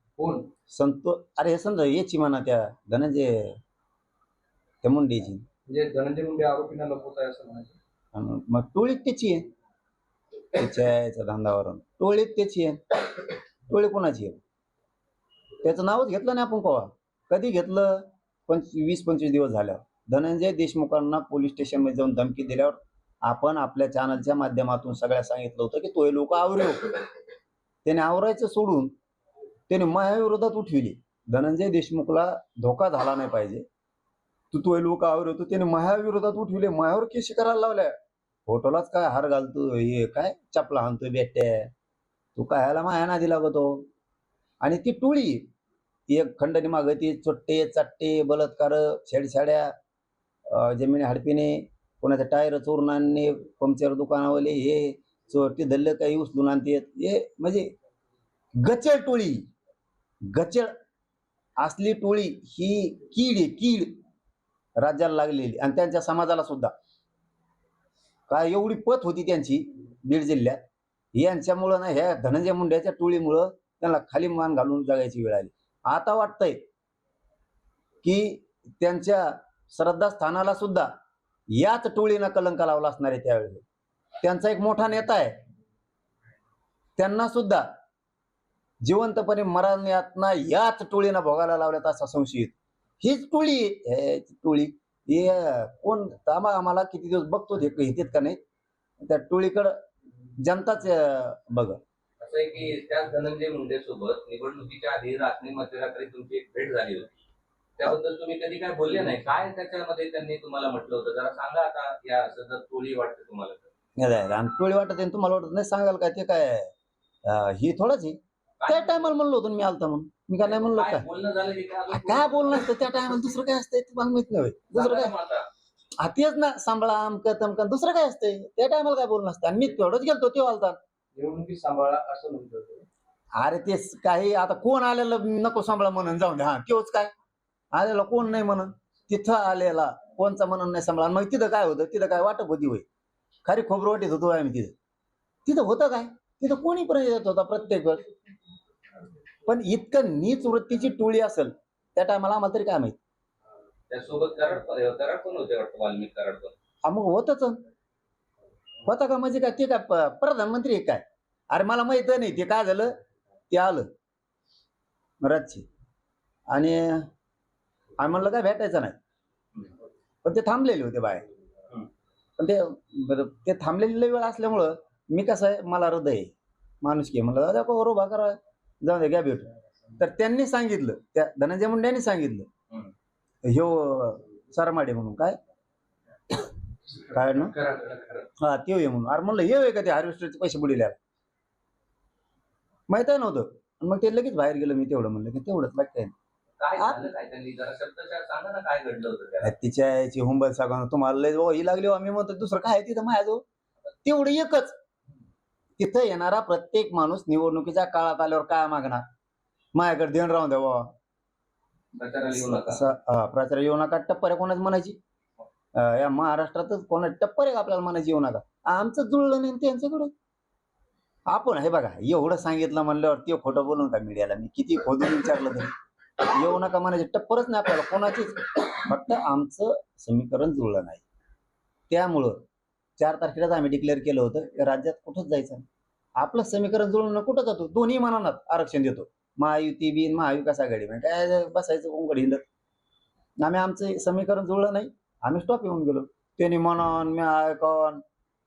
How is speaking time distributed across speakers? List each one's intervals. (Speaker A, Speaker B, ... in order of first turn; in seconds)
Speaker A: 0.7-3.5, 4.8-5.4, 8.1-9.4, 10.5-14.4, 15.6-27.0, 27.8-28.9, 29.7-33.6, 34.5-37.9, 38.5-41.7, 42.4-43.9, 44.6-45.5, 46.1-49.7, 50.5-57.7, 58.6-59.4, 60.3-60.7, 61.6-64.0, 64.8-66.7, 68.3-70.6, 71.1-76.6, 78.0-80.9, 81.5-83.6, 84.2-85.3, 87.0-87.6, 88.8-98.4, 99.1-99.7, 100.4-101.8, 114.0-116.7, 117.2-121.0, 121.9-125.1, 126.0-130.8, 133.4-137.1, 137.7-142.8, 143.4-144.7, 145.4-148.1, 149.5-153.0, 156.8-157.6, 158.8-162.9, 163.5-163.9, 165.2-165.6, 166.5-167.1, 168.0-168.9, 170.2-171.2, 172.4-182.5, 183.4-185.3, 187.1-187.6, 188.4-191.0, 192.9-196.1, 199.4-203.4, 204.0-204.8, 205.8-209.0, 209.7-210.9, 212.3-215.0, 215.8-220.1, 221.3-225.7, 226.2-231.0, 231.9-232.4, 233.0-235.6, 236.2-242.4, 243.4-248.0
Speaker B: 5.7-7.7, 131.1-132.8
Speaker C: 102.2-107.1, 107.8-113.7, 118.6-119.1, 120.4-122.8, 124.7-125.5, 153.9-156.5, 187.6-188.2, 196.6-199.5, 211.9-212.8